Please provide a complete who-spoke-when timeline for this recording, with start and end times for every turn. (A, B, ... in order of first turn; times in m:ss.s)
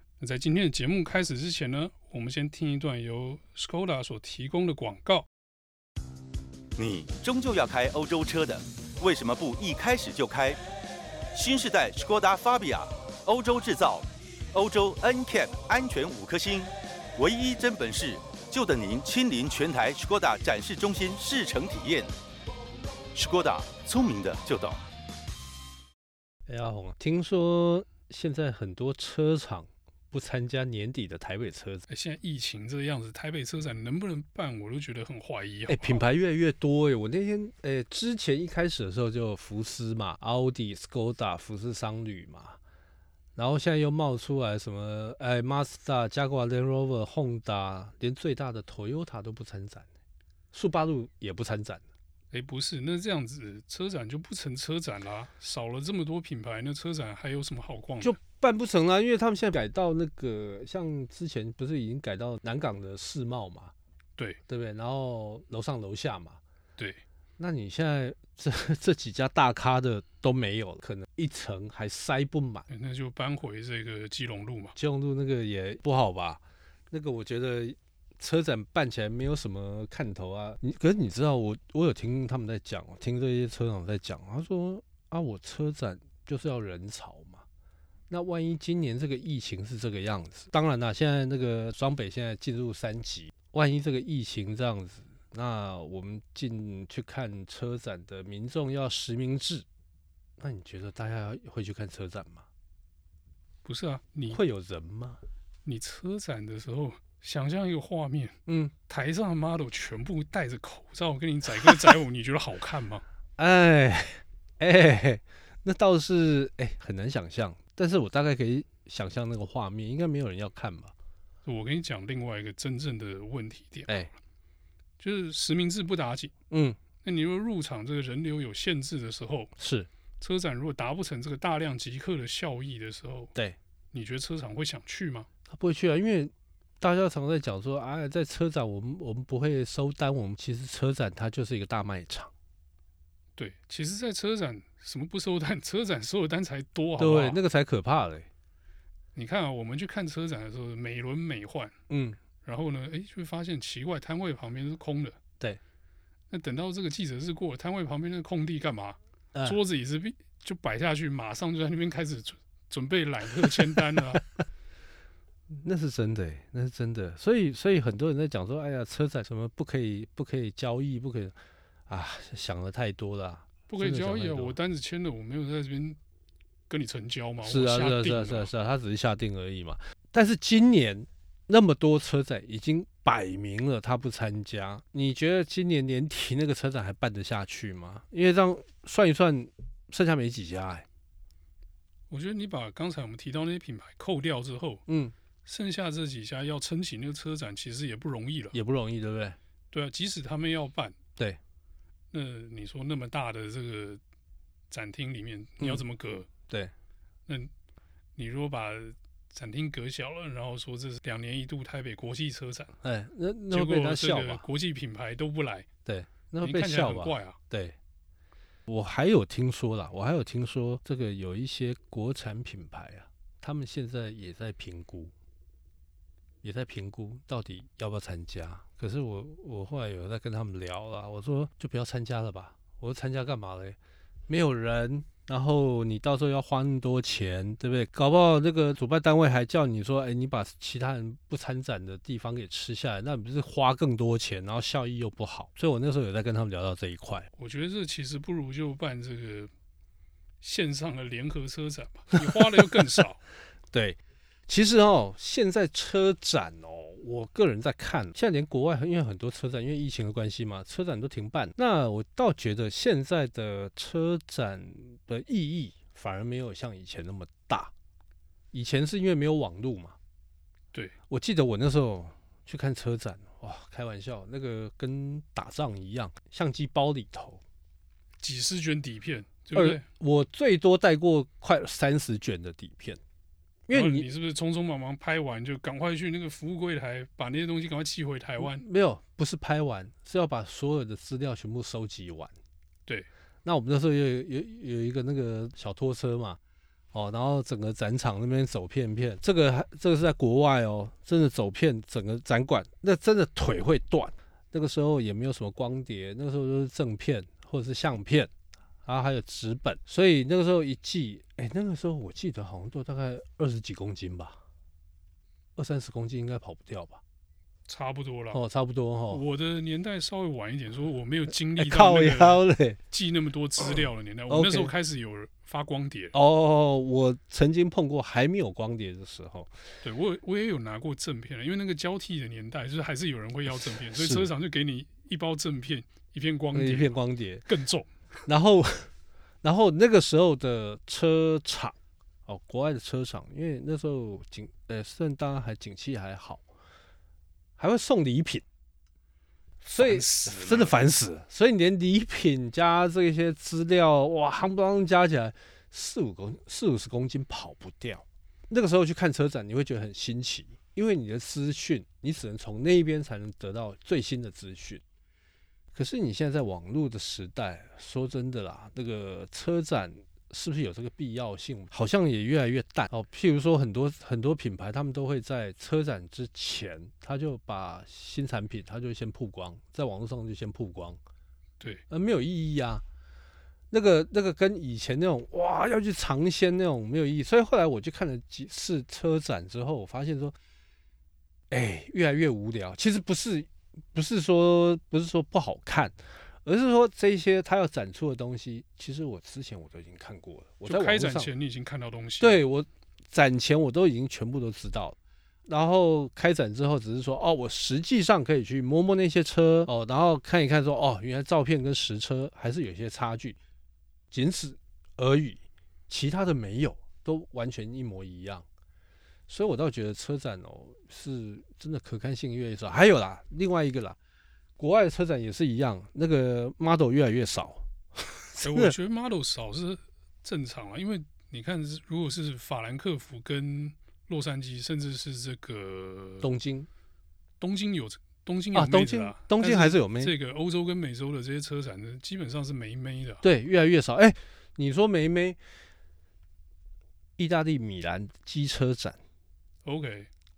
0:00.2-0:05.3 A
0:06.8-0:10.6 B
0:11.3-0:22.1 B
0:23.1-0:24.8 B
0:26.5-0:31.8 C
0:31.9-0:36.0 A
0:35.7-0:42.6 C
0:43.4-0:49.8 C
0:50.5-0:51.8 C
0:52.3-0:58.2 A
0:58.0-1:03.7 C
1:04.5-1:06.4 C
1:07.4-1:12.7 C
1:12.7-1:14.8 A
1:14.8-1:27.4 C
1:28.1-1:39.6 C
1:40.4-1:42.4 C
1:43.6-1:44.4 A
1:44.3-1:45.2 C
1:45.6-1:48.4 A
1:48.5-1:48.7 C
1:48.9-1:53.0 A
1:53.4-2:00.9 C
2:01.4-2:04.2 A
2:03.9-2:04.1 C
2:05.0-2:06.3 A
2:06.5-2:06.8 C
2:07.0-2:09.5 A
2:09.6-2:09.9 C
2:10.2-2:13.3 A
2:13.9-2:15.3 A
2:15.5-2:22.3 C
2:23.4-2:27.4 A
2:27.0-2:28.3 C
2:29.1-2:31.7 A
2:31.9-2:32.2 C
2:32.4-2:35.2 A
2:36.3-2:44.2 A
2:39.3-2:39.6 C
2:45.5-2:51.3 C
2:51.9-2:54.6 C
2:53.7-2:56.0 A
2:56.7-2:58.5 A
2:57.4-3:10.8 C
3:12.1-3:14.8 A
3:14.9-3:15.1 C
3:15.4-3:18.6 A
3:18.5-3:19.4 C
3:19.7-3:20.9 A
3:22.1-3:24.0 A
3:24.7-3:26.3 A
3:28.2-3:32.7 A
3:32.8-3:34.4 C
3:33.5-3:35.6 A
3:35.8-3:37.8 C
3:36.4-3:37.4 A
3:38.7-3:45.1 C
3:46.4-3:53.8 C
3:54.3-4:07.3 C
4:07.4-4:09.5 A
4:10.4-4:13.2 A
4:12.2-4:13.0 C
4:13.7-4:27.7 C
4:28.5-4:30.0 C
4:31.1-4:37.4 C
4:38.2-4:39.8 A
4:39.5-4:43.0 C
4:43.7-4:44.1 C
4:43.7-4:48.6 A
4:48.4-4:52.3 C
4:53.4-4:56.4 C
4:56.9-5:08.3 C
5:08.8-5:14.4 C
5:15.6-5:17.0 C
5:17.7-5:18.4 A
5:18.3-5:19.2 C
5:19.1-5:26.1 A
5:21.6-5:22.8 C
5:23.8-5:24.7 C
5:26.1-5:29.5 C
5:29.8-5:36.9 A
5:33.6-5:34.3 C
5:36.5-5:37.5 C
5:37.5-5:37.9 A
5:38.3-5:38.9 C
5:39.4-5:46.4 C
5:47.6-5:48.4 C
5:49.6-6:04.8 C
5:49.8-5:50.8 A
6:05.7-6:21.0 C
6:21.9-6:22.8 C
6:23.7-6:30.3 C
6:31.5-6:41.3 C
6:40.6-6:42.4 A
6:42.2-6:45.0 C
6:45.5-6:53.4 C
6:54.1-6:58.4 C
6:59.3-7:04.0 C
7:04.6-7:08.7 C
7:08.4-7:16.3 A
7:16.2-7:16.7 C
7:17.4-7:23.2 A
7:18.5-7:20.1 C
7:23.2-7:25.4 C
7:27.2-7:29.0 C
7:29.6-7:30.1 A